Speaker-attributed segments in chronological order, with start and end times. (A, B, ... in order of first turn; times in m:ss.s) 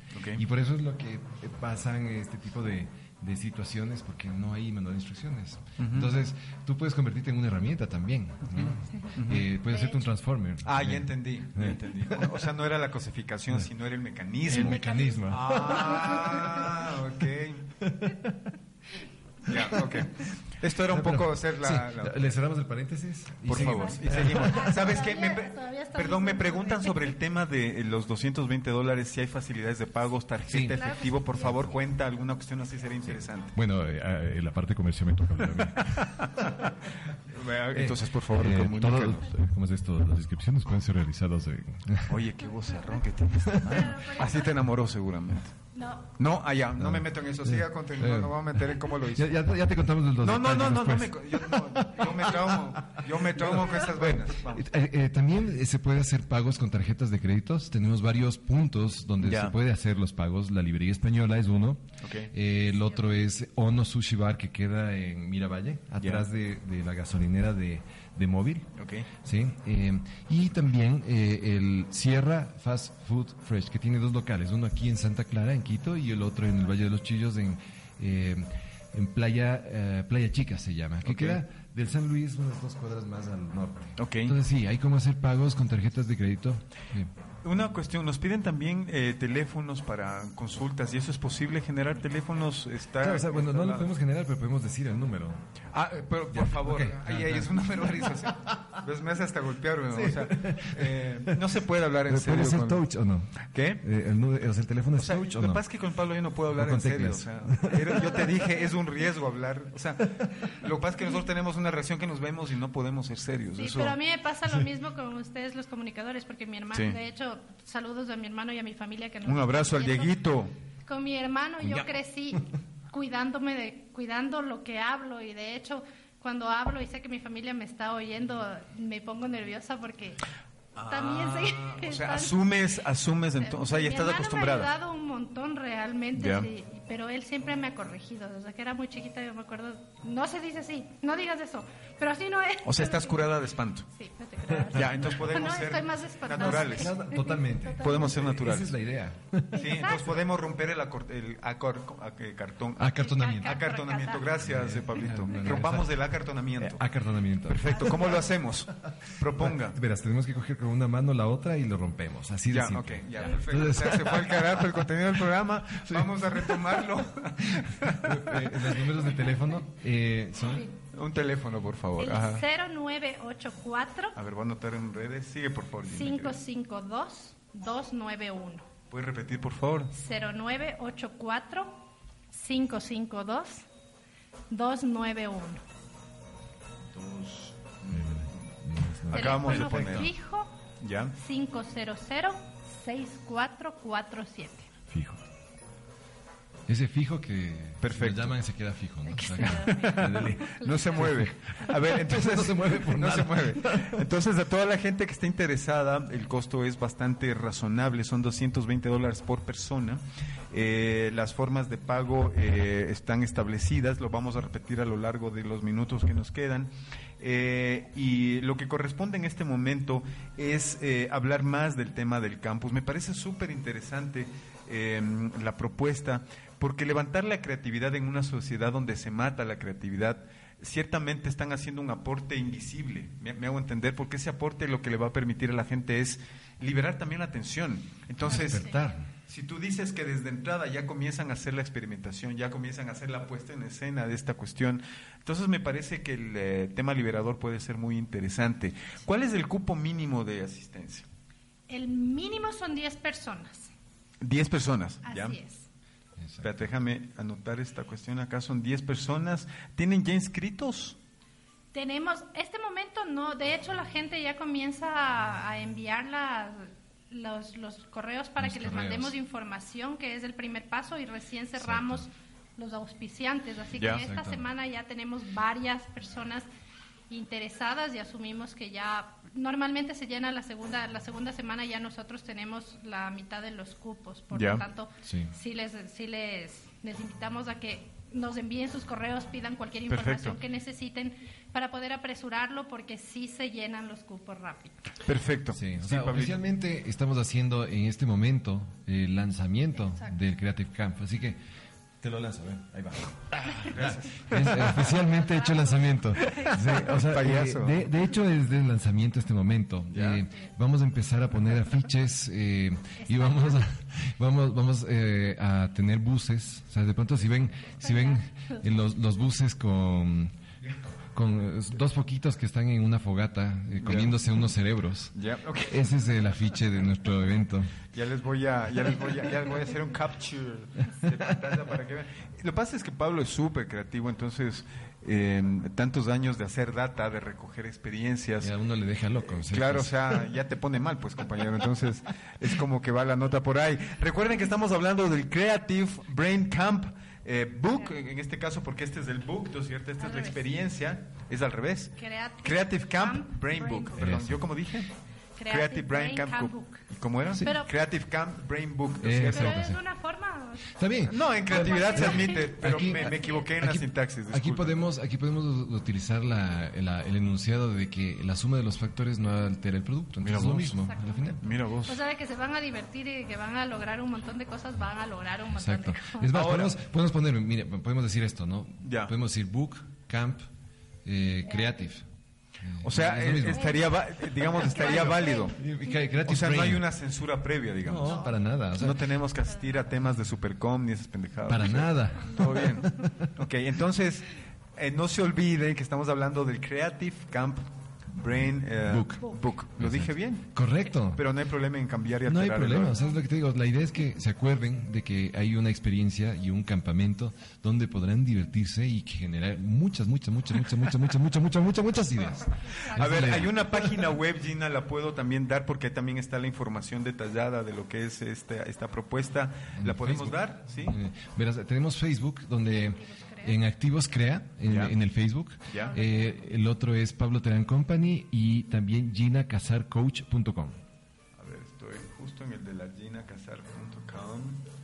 0:00.1-0:00.4 A
0:00.4-0:12.4 B
0:05.8-0:06.1 A
0:08.5-0:09.5 A
0:09.7-0:10.1 C
0:10.6-0:14.8 A
0:14.4-0:16.6 B
0:14.5-0:16.4 C
0:15.3-0:17.6 A
0:17.8-0:18.3 B
0:19.5-0:22.2 A
0:19.5-0:20.1 B
0:20.9-0:24.7 B
0:23.5-0:33.5 A
0:23.5-0:27.2 C
0:30.5-0:30.8 B
0:30.7-0:31.7 C
0:33.0-0:36.2 B
0:35.4-0:36.7 A
0:37.3-0:39.3 A
0:37.7-0:42.2 B
0:42.1-0:45.6 A
0:42.7-0:43.0 C
0:43.5-0:43.9 B
0:43.7-0:44.6 C
0:45.7-0:46.1 C
0:46.2-0:49.3 A
0:46.8-1:27.1 B
0:50.2-0:54.7 A
0:59.2-0:59.6 A
1:02.0-1:02.3 A
1:02.7-1:03.2 C
1:06.0-1:06.3 A
1:08.8-1:09.1 A
1:21.0-1:21.4 A
1:24.0-1:24.3 A
1:27.4-1:33.9 A
1:33.0-1:35.4 B
1:35.7-1:42.8 A
1:36.3-1:38.3 B
1:39.9-1:41.3 B
1:42.1-1:45.6 B
1:43.5-1:43.8 A
1:45.0-1:50.1 A
1:46.5-1:48.3 B
1:50.6-1:54.0 A
1:53.6-2:00.1 C
1:59.3-2:00.5 A
2:00.9-2:10.2 C
2:10.8-2:14.7 A
2:10.9-2:12.4 C
2:13.4-2:23.3 C
2:16.2-2:16.5 A
2:22.6-2:23.9 A
2:23.9-2:28.3 C
2:24.5-2:25.2 B
2:24.7-2:26.9 A
2:26.3-2:29.6 B
2:27.8-2:28.7 A
2:29.5-2:30.2 C
2:29.6-2:36.8 A
2:32.8-2:33.6 B
2:32.9-2:34.4 C
2:34.4-2:37.9 B
2:37.5-2:39.8 A
2:37.7-2:38.3 C
2:39.4-2:46.8 B
2:42.5-2:48.6 A
2:47.6-2:50.7 B
2:50.4-2:50.7 C
2:50.9-2:52.4 A
2:52.0-2:54.1 C
2:54.2-2:56.4 A
2:55.9-2:58.7 C
2:58.9-2:59.9 A
2:59.9-3:01.8 C
3:02.3-3:03.6 C
3:04.5-3:05.6 C
3:07.0-3:08.4 A
3:07.9-3:10.1 B
3:09.1-3:10.1 A
3:09.1-3:10.5 C
3:10.8-3:11.1 A
3:11.2-3:14.7 C
3:14.9-3:15.2 B
3:16.7-3:24.1 B
3:17.8-3:18.4 A
3:19.0-3:21.1 C
3:19.3-3:58.7 A
3:58.3-3:58.8 C
3:58.3-3:59.1 B
3:59.3-4:11.0 A
4:11.7-4:13.7 C
4:14.2-4:15.4 A
4:15.0-4:15.7 C
4:16.2-4:16.6 B
4:16.4-4:21.0 A
4:21.7-4:36.5 C
4:28.4-4:29.1 B
4:31.6-4:32.0 B
4:33.8-4:34.0 A
4:33.9-4:34.4 B
4:37.1-4:54.7 C
4:44.3-4:44.6 A
4:45.0-4:45.3 B
4:49.9-4:50.4 A
4:55.0-4:56.4 A
4:55.5-5:01.4 B
4:59.8-5:00.2 C
5:02.0-5:03.3 B
5:03.7-5:04.9 A
5:03.8-5:20.3 B
5:05.1-5:06.8 C
5:06.4-5:07.8 A
5:09.9-5:10.2 A
5:13.0-5:13.6 C
5:17.6-5:18.7 C
5:21.1-5:25.1 B
5:23.8-5:24.2 A
5:25.1-5:25.9 A
5:25.7-5:27.7 B
5:27.9-5:38.5 A
5:38.4-5:39.9 B
5:39.3-5:54.9 A
5:50.0-5:50.4 C
5:52.0-5:54.0 C
5:54.0-5:54.5 B
5:55.4-5:56.8 C
5:55.5-5:59.6 A
5:57.4-5:57.7 C
5:59.0-5:59.8 B
5:59.3-6:03.5 C
6:00.7-6:11.4 B
6:01.1-6:04.8 A
6:10.2-6:10.8 A
6:10.8-6:16.3 C
6:11.4-6:12.0 A
6:15.5-6:20.4 B
6:16.3-6:16.7 A
6:18.8-6:19.1 A
6:21.0-6:22.0 B
6:21.4-6:21.9 C
6:22.6-6:23.7 B
6:22.8-6:25.6 A
6:23.5-6:26.0 C
6:24.7-6:26.9 B
6:26.3-6:28.2 A
6:27.8-6:29.0 B
6:28.0-6:28.3 C
6:28.8-6:32.8 A
6:29.5-6:29.7 C
6:31.5-6:33.1 B
6:32.2-6:32.9 C
6:33.4-6:40.5 A
6:38.8-6:41.2 B
6:41.1-6:43.0 A
6:42.3-6:54.1 B
6:42.9-6:43.2 C
6:52.9-6:53.5 C
6:52.9-7:01.0 A
6:59.7-7:10.8 B
7:02.6-7:03.6 C
7:04.7-7:04.9 A
7:05.8-7:06.5 C
7:11.4-7:14.6 A